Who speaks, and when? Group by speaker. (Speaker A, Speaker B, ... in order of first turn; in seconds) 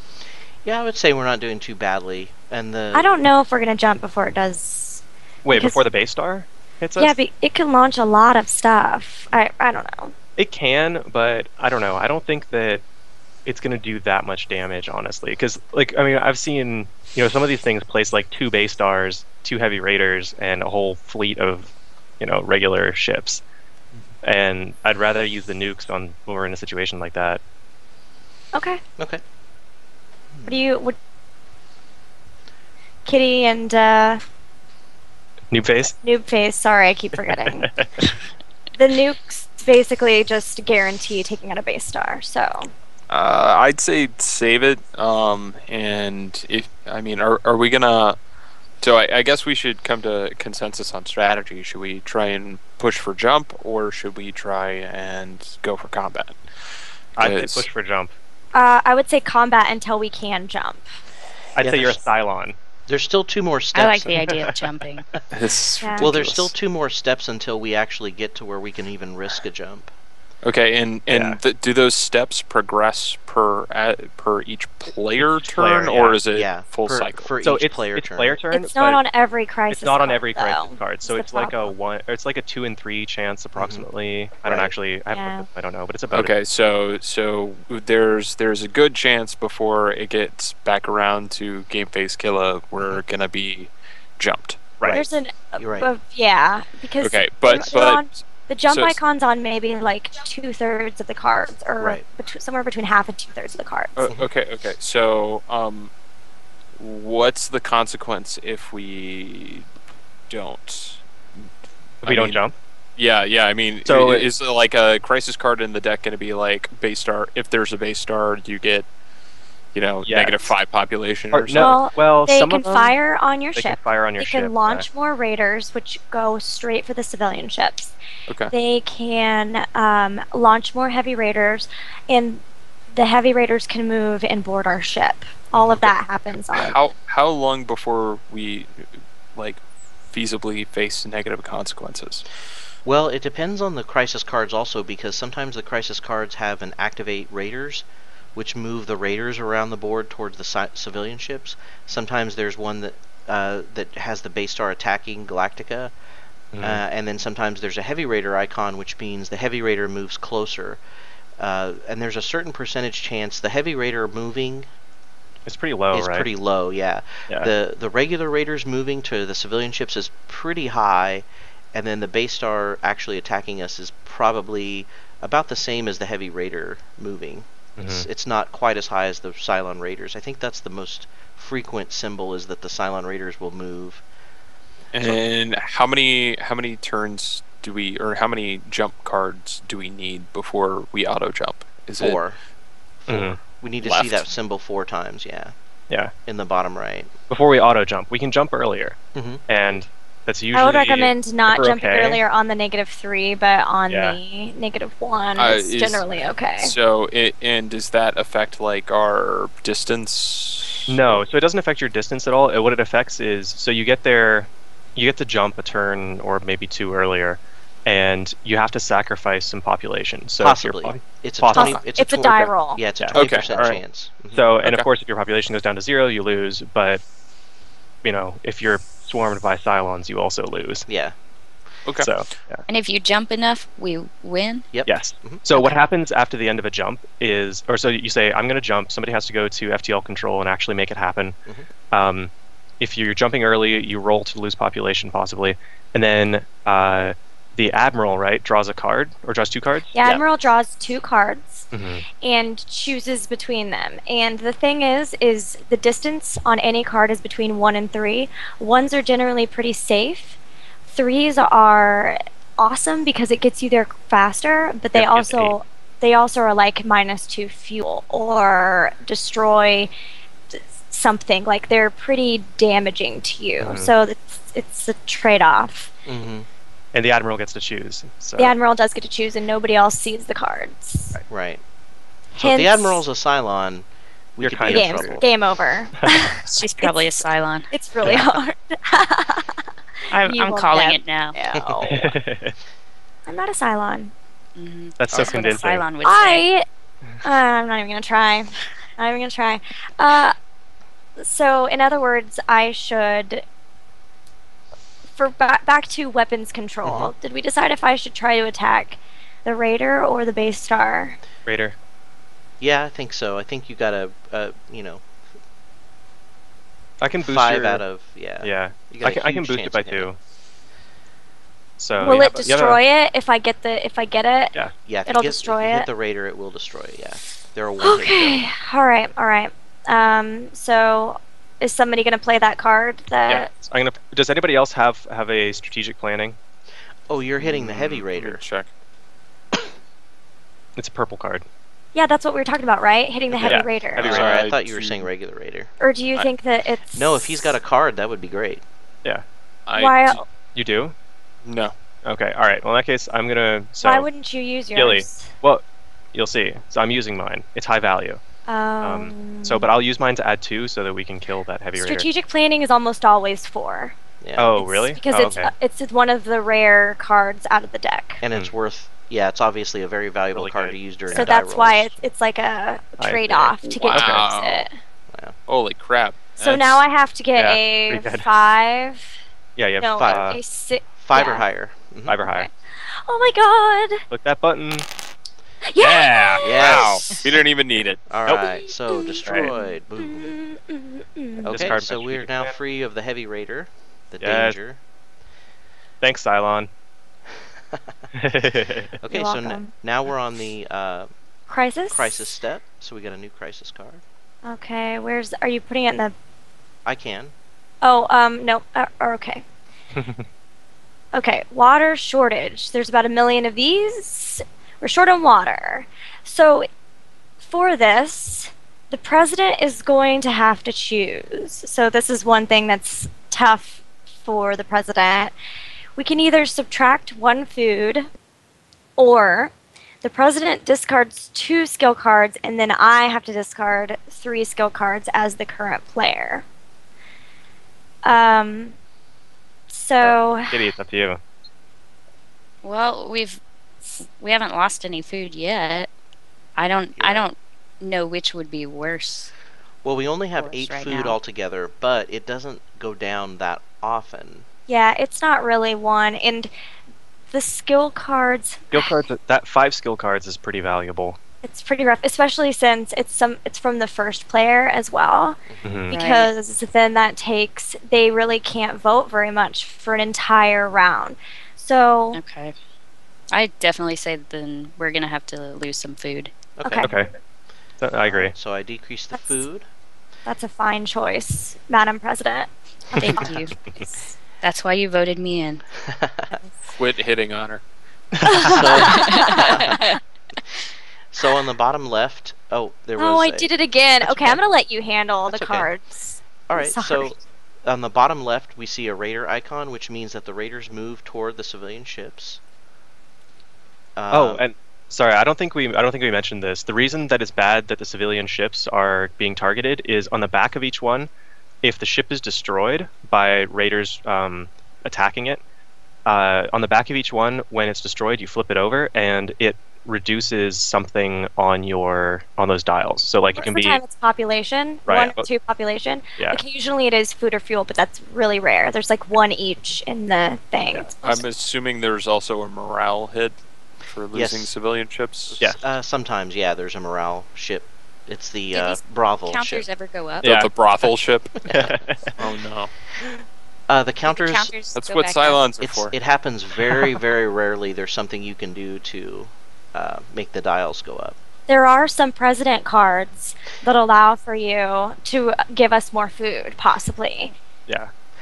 Speaker A: 0.6-3.1, 30.3-30.6, 61.6-62.0, 62.9-64.2, 66.0-69.9, 76.3-78.4, 83.5-83.9, 84.4-84.7, 94.8-95.1, 95.6-95.9, 135.5-135.8, 142.8-155.9, 156.6-160.8, 161.4-164.7, 165.9-184.0, 192.0-192.4, 193.1-195.5, 196.2-197.1, 199.1-199.4, 220.4-224.4, 230.9-231.1, 234.7-235.4, 276.1-276.5, 281.3-281.6, 282.4-283.9, 284.4-285.2, 306.8-307.1, 312.6-315.1, 317.2-320.1, 322.1-322.5, 324.8-328.5, 337.1-338.4, 344.0-345.7, 346.9-348.6, 364.2-364.5, 368.2-372.1, 375.1-375.4, 380.0-380.4, 381.0-382.2, 386.4-387.2, 388.1-390.4, 391.4-394.8, 399.0-401.1, 401.9-404.0, 406.9-407.3, 446.9-447.3, 449.8-454.4, 465.5-465.8, 476.6-476.9, 478.0-479.6, 485.9-486.3, 488.4-489.8, 491.1-494.4, 495.3-495.7, 496.5-502.4, 503.9-504.4, 534.1-534.5, 535.3-539.7, 543.7-544.5, 545.6-551.1
Speaker B: 2.9-5.8, 7.0-10.1, 28.5-28.8, 30.4-31.0, 33.0-34.2, 35.8-37.7, 38.8-42.7, 58.5-60.8, 65.8-66.1, 78.5-81.7, 85.1-85.5, 94.9-103.9, 121.5-127.9, 128.5-136.8, 200.5-206.7, 221.5-222.8, 249.9-251.7, 252.2-260.4, 260.9-269.9, 270.5-275.9, 278.4-281.2, 282.4-283.0, 284.6-289.6, 290.2-292.1, 293.3-294.1, 296.0-296.6, 297.2-300.3, 301.2-303.4, 305.2-311.2, 322.0-324.5, 325.1-325.9, 327.8-333.5, 341.9-344.2, 345.8-347.6, 349.7-350.2, 353.8-355.3, 358.5-359.7, 361.8-363.9, 364.5-368.2, 371.1-374.7, 376.4-379.2, 379.8-381.4, 382.2-384.1, 385.6-387.2, 388.9-391.8, 399.1-399.7, 401.5-402.3, 404.4-406.1, 407.8-409.4, 411.1-416.7, 417.4-425.3, 425.9-428.1, 429.0-429.5, 430.0-436.4, 438.0-438.8, 439.7-440.6, 454.7-456.5, 457.3-458.9, 461.4-472.2, 476.6-476.9, 479.1-479.4, 480.2-482.5, 488.2-489.8, 493.0-497.1, 523.3-531.2, 551.5-557.3
Speaker C: 5.4-7.1, 10.4-12.8, 13.4-23.4, 24.2-27.4, 35.5-35.9, 37.4-37.9, 57.2-58.1, 61.5-62.5, 64.1-64.5, 71.1-71.4, 75.4-76.2, 77.4-79.0, 79.7-86.3, 112.0-112.5, 113.8-114.3, 120.0-120.4, 121.3-123.0, 123.5-124.8, 156.5-156.8, 165.4-166.3, 177.8-178.1, 193.1-193.4, 197.3-202.2, 203.9-204.2, 210.9-221.8, 223.0-227.0, 228.0-230.9, 232.0-232.6, 234.9-241.3, 241.9-249.9, 251.7-252.0, 264.9-265.5, 273.6-273.9, 276.9-278.5, 284.4-285.2, 291.8-292.5, 295.0-295.8, 311.4-311.8, 317.0-317.8, 318.4-320.2, 321.8-322.8, 333.3-336.4, 340.8-341.4, 343.4-344.4, 350.5-350.9, 352.1-354.1, 354.7-355.6, 356.1-358.2, 358.8-362.1, 364.4-365.5, 370.3-371.4, 373.0-374.2, 377.4-378.3, 379.6-380.4, 382.1-382.5, 384.1-384.9, 385.8-386.4, 388.3-388.6, 389.2-389.5, 391.4-392.5, 394.2-394.6, 396.0-396.7, 398.1-398.9, 409.9-410.3, 440.0-441.2, 458.7-461.2, 465.6-465.9, 476.8-477.1, 477.8-478.3, 488.3-488.6, 504.1-511.1, 511.6-515.4, 516.0-523.8, 524.9-525.3, 540.2-540.5, 541.5-542.1
Speaker D: 43.1-48.2, 48.8-57.6, 65.3-66.5, 70.4-77.3, 86.1-94.8, 97.0-99.0, 104.0-105.9, 106.7-109.7, 110.3-111.0, 112.0-112.4, 113.0-118.9, 119.7-121.8, 128.3-128.5, 136.5-142.2, 184.9-192.2, 193.8-194.3, 205.3-206.1, 206.6-211.1, 223.1-223.8, 231.8-232.3, 337.4-338.7, 343.4-345.1, 349.7-350.2, 351.4-351.7, 373.7-374.7, 375.5-376.8, 386.5-388.0, 486.8-487.6, 531.0-535.4, 540.2-541.4, 542.2-542.7, 544.7-545.9
Speaker E: 63.7-65.1, 232.7-234.7, 286.4-287.7, 290.1-291.3, 294.6-296.4, 442.6-443.4, 443.9-445.9, 446.6-449.3, 450.4-451.2, 465.9-466.3, 472.1-472.5, 473.3-476.3, 482.9-485.6, 488.9-490.0, 538.5-540.3, 544.0-545.4